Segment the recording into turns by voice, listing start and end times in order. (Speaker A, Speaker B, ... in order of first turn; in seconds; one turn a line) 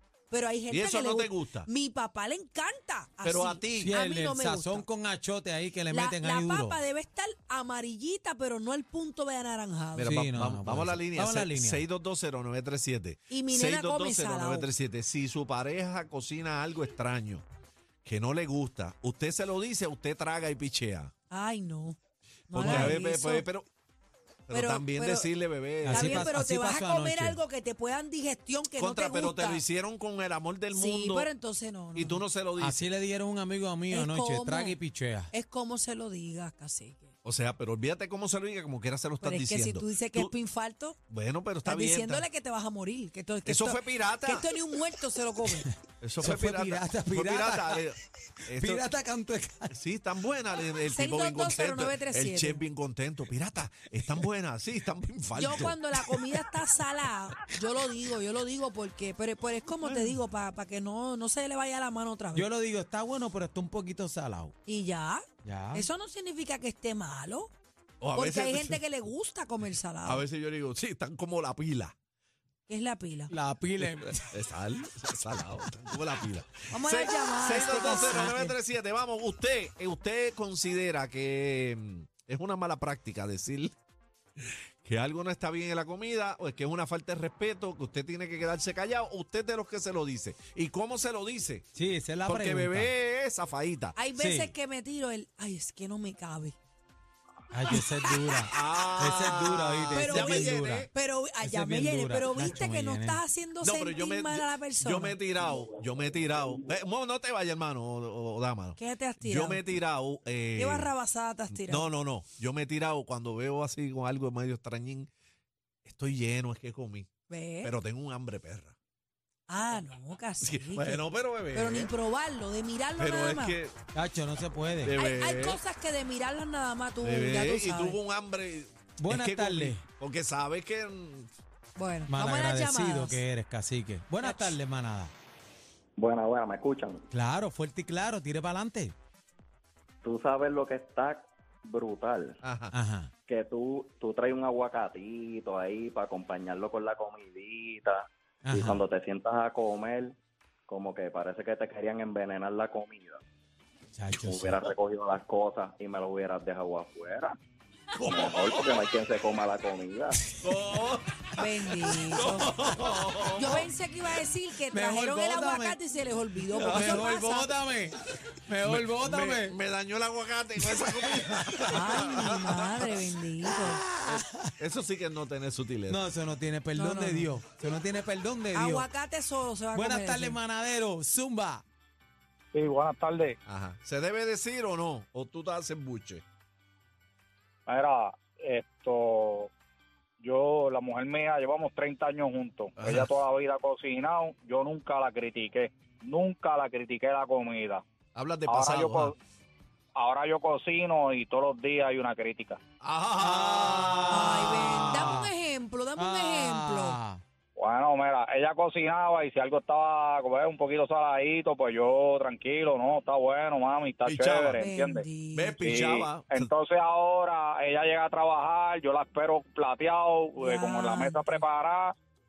Speaker A: 0.3-4.8
Speaker B: 0.7-1.7
Speaker B: 3.2-4.0
Speaker C: 3.8-6.8
Speaker A: 5.9-10.2
Speaker B: 10.0-17.4
Speaker C: 10.1-11.9
Speaker A: 13.3-14.7
Speaker B: 18.0-21.1
Speaker A: 21.3-22.0
Speaker A: 22.5-23.5
Speaker B: 22.5-23.7
Speaker C: 22.6-23.0
Speaker B: 24.5-26.3
Speaker A: 24.5-25.3
Speaker C: 25.8-27.4
Speaker A: 25.9-29.6
Speaker B: 28.8-31.3
Speaker A: 30.7-32.2
Speaker B: 31.9-32.9
Speaker C: 32.6-35.3
Speaker A: 33.9-34.8
Speaker A: 35.3-37.1
Speaker B: 37.2-40.3
Speaker A: 39.2-41.0
Speaker B: 41.1-42.2
Speaker A: 41.6-45.7
Speaker B: 43.5-44.5
Speaker B: 46.0-48.9
Speaker C: 46.2-47.9
Speaker C: 48.5-49.8
Speaker B: 49.7-55.8
Speaker A: 50.9-52.6
Speaker A: 55.3-62.5
Speaker C: 62.4-64.5
Speaker A: 64.7-67.5
Speaker C: 65.4-65.9
Speaker B: 68.0-68.8
Speaker A: 68.1-70.2
Speaker B: 70.0-71.9
Speaker A: 72.7-73.3
Speaker C: 73.3-74.4
Speaker B: 73.8-83.8
Speaker A: 76.7-78.6
Speaker B: 84.4-91.7
Speaker C: 91.7-92.9
Speaker B: 92.2-94.0
Speaker A: 94.0-96.6
Speaker C: 94.2-94.5
Speaker C: 97.5-100.9
Speaker A: 97.7-98.4
Speaker B: 98.5-100.9
Speaker A: 99.9-105.2
Speaker C: 101.4-103.2
Speaker B: 103.6-110.9
Speaker A: 108.8-109.7
Speaker A: 110.6-111.9
Speaker B: 111.5-115.1
Speaker B: 115.8-118.8
Speaker A: 117.3-117.7
Speaker A: 119.5-123.6
Speaker B: 120.4-121.9
Speaker B: 123.0-123.8
Speaker C: 123.9-125.0
Speaker B: 124.8-125.6
Speaker A: 124.9-128.0
Speaker B: 127.0-131.3
Speaker C: 129.0-129.8
Speaker A: 131.8-133.2
Speaker C: 132.1-135.1
Speaker A: 134.2-134.5
Speaker D: 136.0-137.0
Speaker C: 137.1-138.9
Speaker D: 140.0-142.4
Speaker B: 142.4-142.8
Speaker C: 142.7-143.1
Speaker D: 143.3-150.2
Speaker C: 148.4-148.8
Speaker D: 150.7-153.2
Speaker C: 153.9-154.7
Speaker D: 154.1-157.3
Speaker B: 157.9-158.8
Speaker D: 158.1-160.2
Speaker B: 160.4-163.7
Speaker A: 161.4-162.6
Speaker A: 163.3-167.5
Speaker C: 164.7-165.8
Speaker C: 166.4-169.6
Speaker B: 166.6-167.1
Speaker B: 168.6-172.8
Speaker C: 170.8-172.3
Speaker A: 171.7-173.8
Speaker C: 173.6-174.5
Speaker B: 174.1-176.0
Speaker C: 175.9-178.9
Speaker A: 176.8-177.3
Speaker A: 178.5-180.4
Speaker C: 179.7-181.6
Speaker E: 182.5-183.4
Speaker B: 183.5-186.2
Speaker E: 187.7-189.5
Speaker E: 190.2-197.8
Speaker B: 192.8-193.1
Speaker B: 198.2-199.1
Speaker E: 198.5-199.2
Speaker E: 200.0-202.6
Speaker B: 202.8-205.1
Speaker C: 203.2-205.3
Speaker A: 204.1-207.0
Speaker C: 206.0-207.2
Speaker E: 207.6-215.1
Speaker B: 214.1-214.6
Speaker A: 214.6-216.0
Speaker B: 215.3-216.5
Speaker E: 215.6-221.9
Speaker A: 220.4-221.4